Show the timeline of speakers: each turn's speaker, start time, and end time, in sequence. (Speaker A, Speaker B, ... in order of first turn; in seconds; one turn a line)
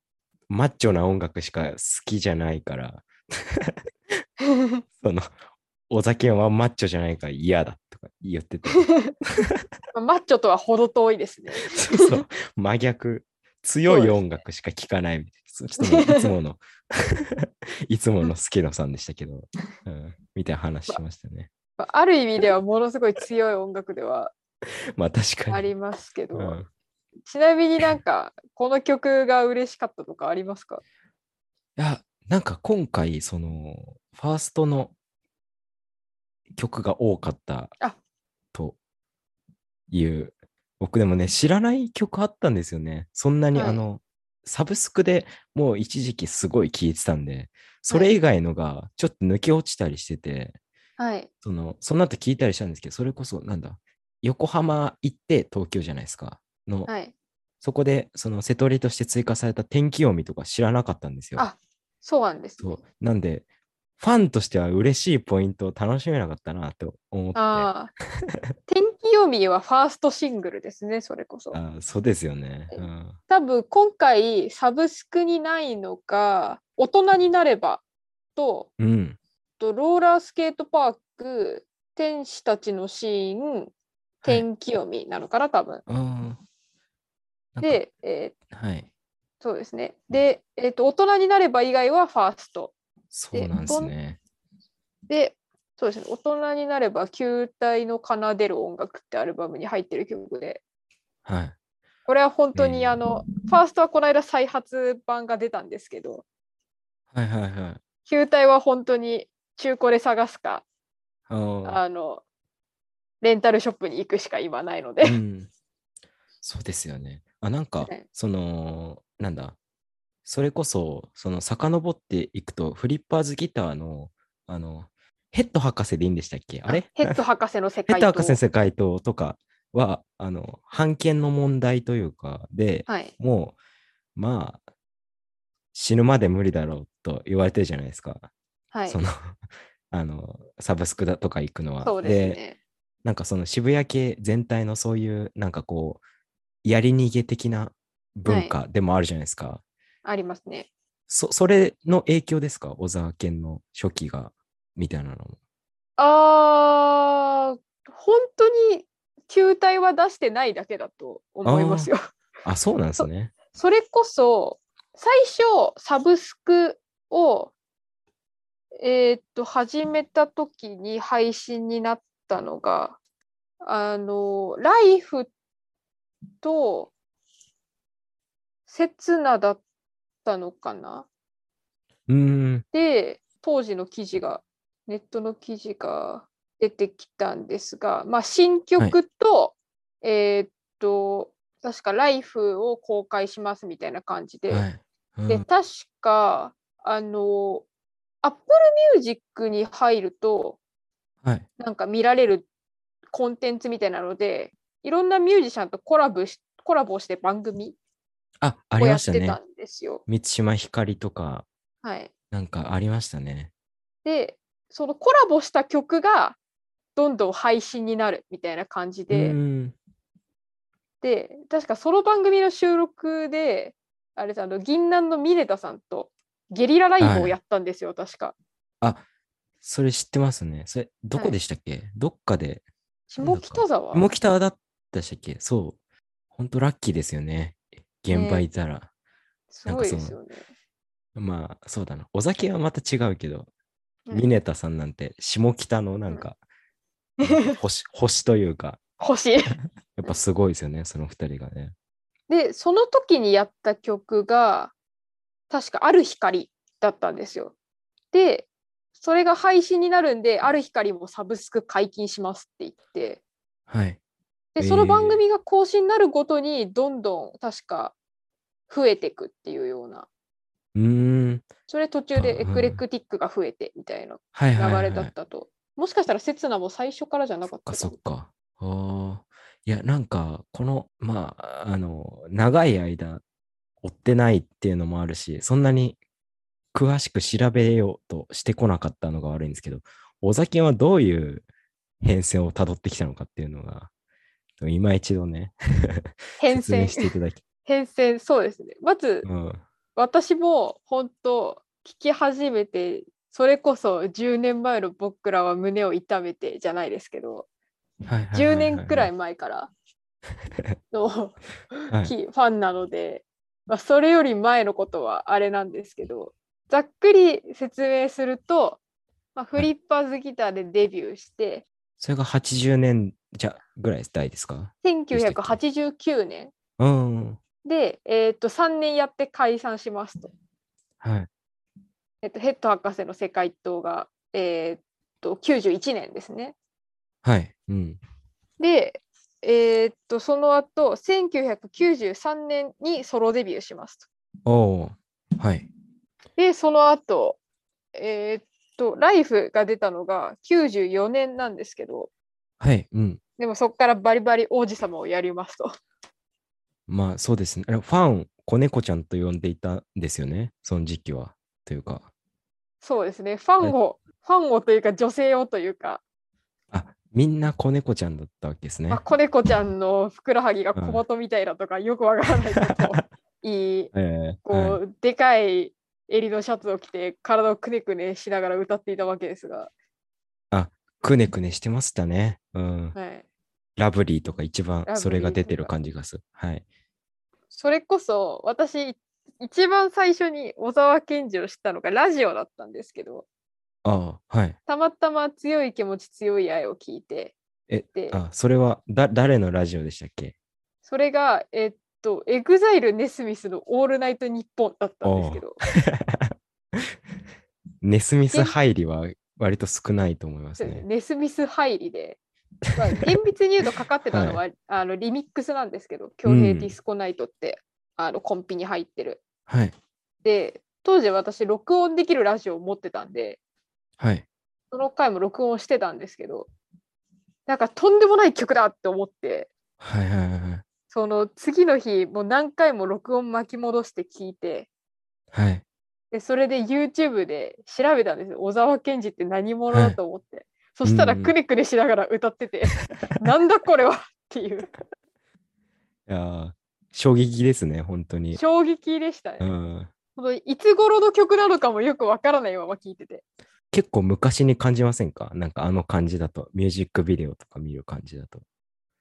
Speaker A: 0.5-3.8
Speaker B: 4.4-4.8
Speaker A: 5.0-5.3
Speaker A: 5.9-8.8
Speaker B: 8.7-9.1
Speaker B: 9.9-12.2
Speaker A: 11.6-21.5
Speaker B: 13.8-14.2
Speaker B: 15.8-16.3
Speaker B: 21.8-24.3
Speaker A: 24.9-25.7
Speaker B: 25.5-26.6
Speaker A: 26.3-26.7
Speaker B: 27.2-30.8
Speaker A: 31.8-34.9
Speaker A: 36.5-37.7
Speaker A: 39.9-50.6
Speaker B: 43.5-43.8
Speaker B: 47.9-48.1
Speaker B: 51.0-51.3
Speaker A: 51.4-56.9
Speaker B: 56.9-57.1
Speaker A: 57.6-61.4
Speaker B: 61.4-62.8
Speaker A: 62.6-63.4
Speaker A: 64.0-67.7
Speaker B: 67.3-67.9
Speaker B: 68.7-71.6
Speaker A: 71.5-73.2
Speaker B: 72.7-77.8
Speaker B: 78.3-78.7
Speaker A: 78.8-79.2
Speaker B: 79.6-83.7
Speaker B: 84.2-85.8
Speaker A: 85.9-86.4
Speaker A: 87.5-87.8
Speaker B: 87.6-88.3
Speaker A: 88.5-88.9
Speaker B: 89.4-92.7
Speaker A: 93.1-94.2
Speaker B: 93.3-93.9
Speaker B: 95.1-100.6
Speaker A: 101.2-101.5
Speaker B: 102.1-106.2
Speaker A: 102.5-103.0
Speaker A: 107.1-107.8
Speaker B: 108.0-110.6
Speaker A: 111.3-111.8
Speaker B: 111.6-112.2
Speaker B: 113.2-115.2
Speaker A: 115.0-115.5
Speaker A: 116.4-119.5
Speaker A: 120.2-127.2
Speaker B: 126.7-128.4
Speaker A: 127.9-133.6
Speaker B: 132.9-133.1
Speaker A: 134.1-134.6
Speaker A: 135.7-138.3
Speaker B: 138.7-139.0
Speaker A: 138.9-139.3
Speaker A: 139.9-142.4
Speaker B: 141.8-142.6
Speaker A: 143.0-146.0
Speaker A: 146.6-149.6
Speaker B: 148.3-148.5
Speaker B: 150.0-150.7
Speaker A: 151.1-155.4
Speaker B: 156.0-162.0
Speaker A: 161.4-161.9
Speaker A: 162.4-163.3
Speaker B: 163.0-167.5
Speaker B: 168.8-173.0
Speaker B: 173.6-175.3
Speaker B: 176.4-176.9
Speaker B: 178.7-179.6
Speaker B: 180.2-181.1
Speaker A: 182.1-182.6
Speaker B: 182.7-194.7
Speaker A: 194.5-195.4
Speaker B: 195.3-197.7
Speaker B: 198.2-200.6
Speaker B: 201.6-202.4
Speaker B: 203.1-207.8
Speaker A: 208.4-209.4
Speaker B: 208.8-210.0
Speaker A: 210.1-211.4
Speaker B: 211.8-212.1
Speaker A: 212.3-213.5
Speaker B: 214.0-216.4
Speaker B: 216.9-219.4
Speaker A: 219.1-219.7
Speaker B: 221.0-228.3
Speaker A: 227.0-227.3
Speaker A: 229.6-232.6
Speaker B: 233.1-234.1
Speaker A: 233.2-235.8
Speaker A: 236.3-238.9
Speaker B: 238.1-238.5
Speaker B: 239.5-240.4
Speaker A: 239.7-240.2
Speaker A: 241.1-243.5
Speaker A: 244.1-246.4
Speaker B: 247.2-247.6
Speaker A: 247.2-248.8
Speaker B: 249.0-250.2
Speaker A: 250.0-251.7
Speaker B: 252.3-254.7
Speaker B: 255.5-257.5
Speaker B: 258.1-258.5
Speaker B: 259.0-263.2
Speaker A: 263.7-264.0
Speaker B: 264.5-267.9
Speaker A: 264.6-265.2
Speaker B: 268.7-270.1
Speaker A: 270.7-271.5
Speaker B: 271.7-277.9
Speaker A: 272.1-272.8
Speaker A: 274.3-275.1
Speaker A: 277.6-283.2
Speaker A: 283.8-286.0
Speaker A: 286.7-291.4
Speaker A: 292.0-293.9
Speaker A: 294.6-297.4
Speaker B: 296.4-297.1
Speaker B: 297.6-299.3
Speaker A: 299.2-299.6
Speaker B: 299.9-307.4
Speaker A: 308.0-309.1
Speaker B: 308.3-309.7
Speaker B: 310.9-318.8
Speaker B: 319.3-321.6
Speaker A: 322.0-325.6
Speaker B: 324.8-326.5
Speaker A: 326.8-327.4
Speaker B: 327.6-330.3
Speaker A: 331.0-331.3
Speaker B: 332.2-336.5
Speaker A: 337.2-338.0
Speaker B: 338.6-344.1
Speaker A: 344.4-345.7
Speaker B: 346.4-347.4
Speaker B: 347.9-352.1
Speaker A: 352.6-353.2
Speaker B: 353.4-355.8
Speaker A: 356.9-362.1
Speaker B: 362.8-366.0
Speaker A: 366.7-369.0
Speaker B: 368.9-373.9
Speaker A: 370.7-371.0
Speaker A: 372.6-373.0
Speaker A: 373.9-374.8
Speaker B: 374.4-379.7
Speaker A: 380.5-382.9
Speaker B: 382.9-383.2
Speaker A: 383.8-386.6
Speaker B: 384.9-385.7
Speaker B: 387.5-393.2
Speaker A: 393.8-394.6
Speaker B: 394.7-397.3
Speaker A: 397.7-400.3
Speaker B: 397.9-398.2
Speaker B: 400.9-405.6
Speaker A: 405.0-406.9
Speaker A: 407.8-410.8
Speaker B: 410.6-412.2
Speaker B: 412.7-419.2
Speaker A: 414.1-414.4
Speaker A: 416.2-416.7
Speaker A: 419.5-419.7
Speaker B: 420.2-423.4
Speaker A: 424.0-424.2
Speaker B: 424.7-426.5
Speaker B: 427.5-429.5
Speaker A: 429.8-430.6
Speaker B: 430.9-434.7
Speaker A: 435.3-435.6
Speaker B: 436.1-444.7
Speaker A: 439.7-440.0
Speaker A: 440.8-441.3
Speaker A: 442.7-443.3
Speaker A: 446.1-448.4
Speaker B: 448.3-449.5
Speaker A: 449.4-449.9
Speaker B: 450.1-453.2
Speaker A: 453.7-458.4